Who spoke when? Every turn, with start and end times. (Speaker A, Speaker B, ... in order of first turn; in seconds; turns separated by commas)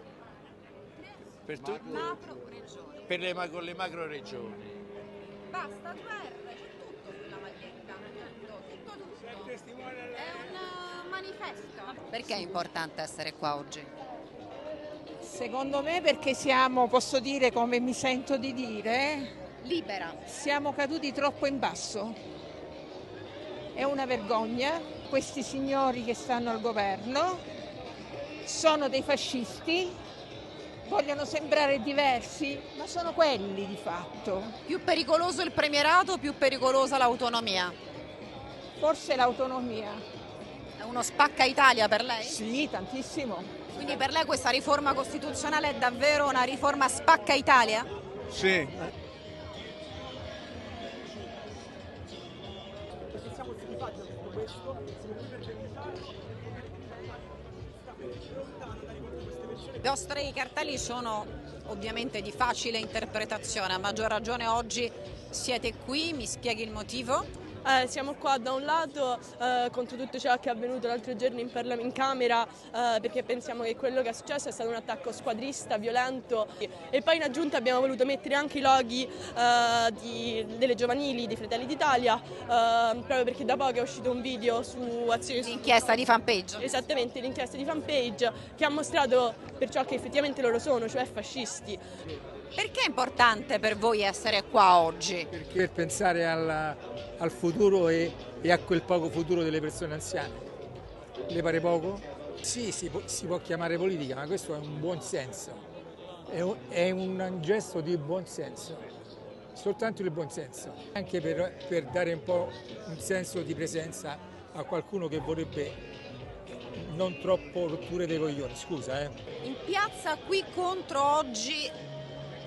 Speaker A: 1.0-3.1, Speaker B: 1.4-2.2, Speaker B: 3.1-4.6, Speaker A: 5.5-13.9, Speaker C: 15.2-19.3, Speaker A: 19.6-20.2, Speaker C: 20.2-22.2, Speaker C: 23.7-27.4, Speaker C: 28.4-30.0, Speaker C: 30.8-34.5, Speaker A: 34.6-37.8, Speaker C: 38.8-40.0, Speaker A: 40.8-42.4, Speaker C: 42.2-43.5, Speaker A: 43.7-47.9, Speaker B: 48.3-48.9, Speaker A: 59.8-67.3, Speaker D: 67.6-85.9, Speaker A: 85.4-86.7, Speaker D: 86.6-91.8, Speaker A: 92.5-95.3, Speaker E: 95.3-100.4, Speaker E: 101.3-105.6, Speaker E: 106.3-108.8, Speaker E: 109.5-115.8, Speaker E: 116.8-119.2, Speaker A: 119.4-121.7